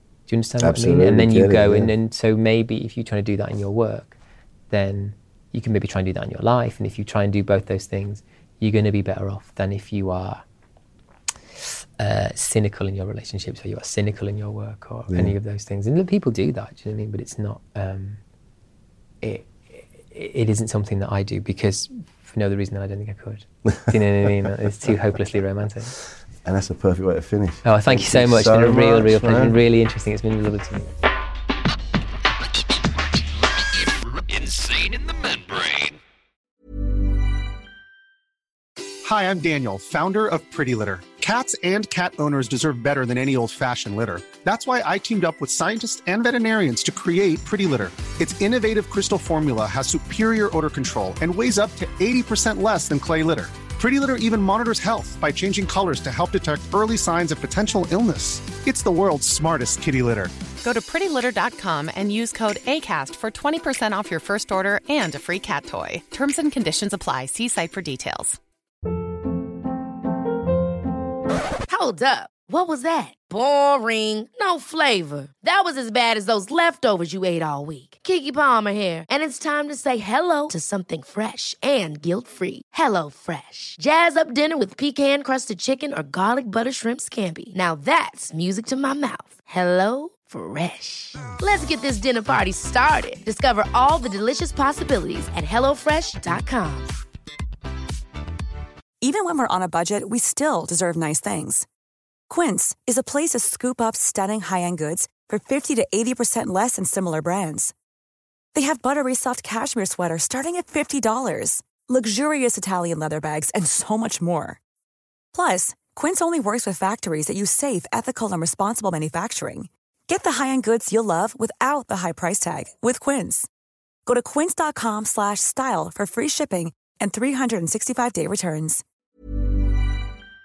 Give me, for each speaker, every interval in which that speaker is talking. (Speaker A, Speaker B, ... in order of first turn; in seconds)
Speaker A: 0.3-4.2, 4.7-10.4, 12.0-18.2, 19.2-25.9, 27.6-30.9
Speaker B: 0.6-1.9, 26.4-29.6
Speaker C: 39.0-60.3
Speaker D: 60.6-68.4
Speaker E: 71.7-96.9
Speaker F: 99.0-101.7, 102.3-107.7, 108.5-114.6, 115.3-123.5, 124.0-128.8